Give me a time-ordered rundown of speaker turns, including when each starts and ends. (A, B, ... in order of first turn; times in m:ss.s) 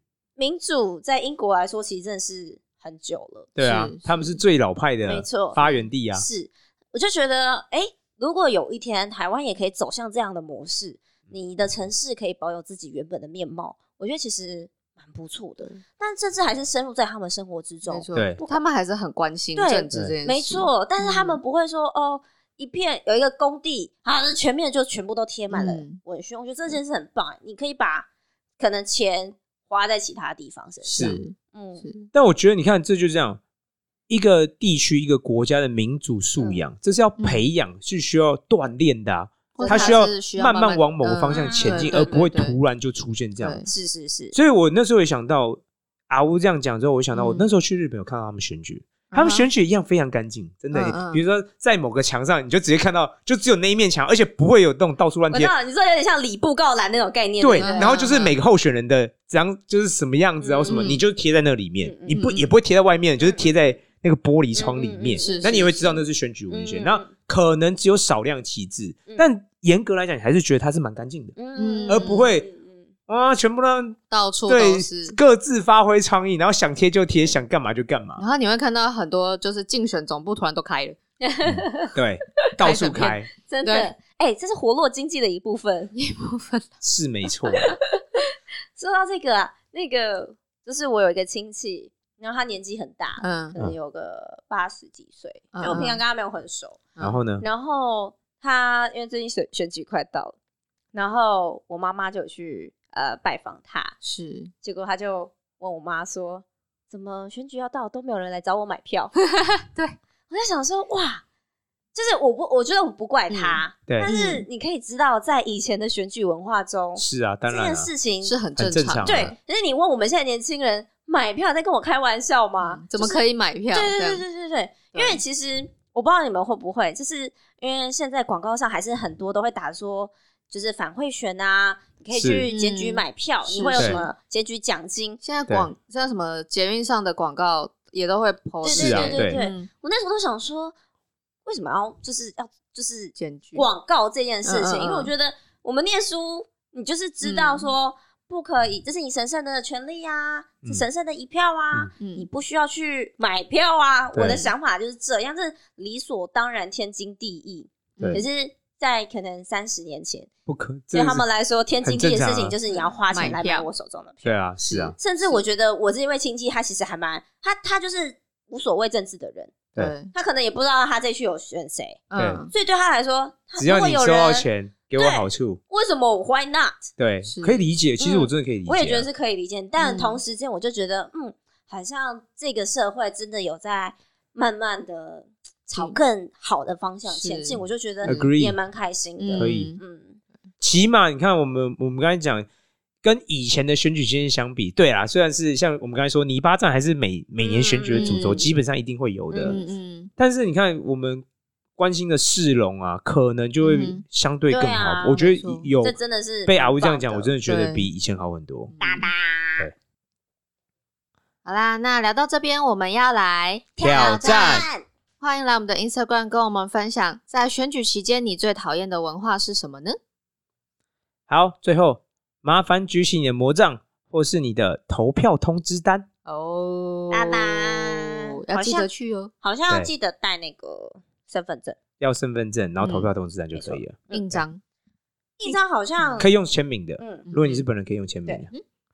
0:00.4-0:03.5 A
0:03.6-0:06.2 B
0:03.6-0:04.1 C
0:05.0-0:18.6 A
0:17.9-0:21.4 C
0:19.6-0:28.1 A
0:25.5-0:26.0 C
0:28.6-0:31.8 A
0:30.8-0:32.1 C
0:31.0-0:31.2 B
0:32.1-0:33.4 B
0:34.1-0:43.6 B
0:37.2-0:37.5 C
0:39.6-0:42.6 C
0:39.6-0:40.0 A
0:41.3-0:42.2 A
0:43.4-0:43.7 C
0:43.7-0:44.3 A
0:44.3-0:55.5 B
0:47.1-0:47.5 C
0:49.1-0:49.5 C
0:50.7-0:51.2 C
0:55.3-0:58.2 A
0:57.4-1:11.4 B
0:57.6-0:58.3 C
1:00.4-1:01.0 A
1:00.7-1:01.0 C
1:01.8-1:02.2 A
1:02.1-1:02.4 C
1:04.6-1:06.0 A
1:05.2-1:05.8 C
1:06.5-1:07.1 A
1:11.4-1:12.9 A
1:11.5-1:12.2 C
1:11.9-1:12.5 B
1:13.1-1:18.2 B
1:14.1-1:15.2 C
1:18.2-1:21.0 C
1:21.2-1:22.0 A
1:21.9-1:23.3 B
1:22.6-1:23.9 C
1:23.4-1:25.9 A
1:26.0-1:26.7 C
1:26.8-1:27.7 B
1:27.5-1:27.8 C
1:27.7-1:28.2 A
1:28.8-1:40.4 A
1:33.2-1:33.6 C
1:35.5-1:36.0 C
1:37.0-1:37.4 B
1:40.9-1:44.0 A
1:44.0-1:44.5 C
1:44.6-1:49.1 A
1:49.4-1:50.0 C
1:50.3-1:51.2 A
1:51.9-1:58.4 A
1:53.3-1:54.4 C
1:57.0-1:57.9 B
1:58.2-1:59.4 C
1:58.6-1:59.3 B
1:59.0-2:15.2 A
2:02.6-2:04.2 C
2:04.9-2:05.2 C
2:12.1-2:12.4 B
2:12.5-2:14.1 C
2:15.2-2:19.7 C
2:18.6-2:20.7 A
2:18.7-2:19.4 B
2:21.4-2:40.3 A
2:23.2-2:23.6 C
2:24.4-2:25.1 C
2:27.2-2:27.7 C
2:32.0-2:32.3 C
2:34.1-2:34.4 B
2:38.0-2:38.2 C
2:40.5-2:41.2 B
2:40.9-2:44.4 A
2:41.8-2:42.6 B
2:43.1-2:43.7 C
2:44.2-2:45.0 B
2:44.6-2:45.4 C
2:45.0-2:49.6 A
2:49.8-2:50.1 C
2:50.1-2:56.9 A
2:52.1-2:52.5 C
2:52.2-2:52.4 B
2:53.6-2:55.6 B
2:57.0-2:59.1 B
2:57.2-2:57.6 C
2:58.0-3:10.2 A
2:59.8-3:00.2 C
3:07.0-3:08.3 C
3:08.0-3:08.6 B
3:09.2-3:09.8 C
3:09.4-3:09.7 B
3:10.6-3:12.5 B
3:13.0-3:19.6 B
3:17.4-3:18.4 A
3:17.9-3:18.5 C
3:19.3-3:19.6 A
3:19.4-3:20.1 C
3:20.2-3:21.2 B
3:21.8-3:28.7 B
3:23.6-3:24.0 C
3:24.5-3:25.2 A
3:25.1-3:25.7 C
3:25.8-3:27.3 A
3:27.4-3:27.8 C
3:28.7-3:29.1 C
3:28.8-3:29.7 A
3:31.4-3:34.6 C
3:33.8-3:34.8 A
3:33.8-3:34.6 B
3:35.2-3:40.0 C
3:41.3-3:46.1 B
3:46.2-3:49.3 C
3:47.1-3:48.9 A
3:49.4-3:51.8 A
3:52.0-3:54.4 B
3:52.8-3:53.1 C
3:53.5-3:54.2 A
3:54.1-3:54.6 C
3:55.4-3:56.3 A
3:55.4-3:56.2 C
3:56.2-3:58.5 B
3:57.0-3:57.3 A
3:57.3-3:57.6 C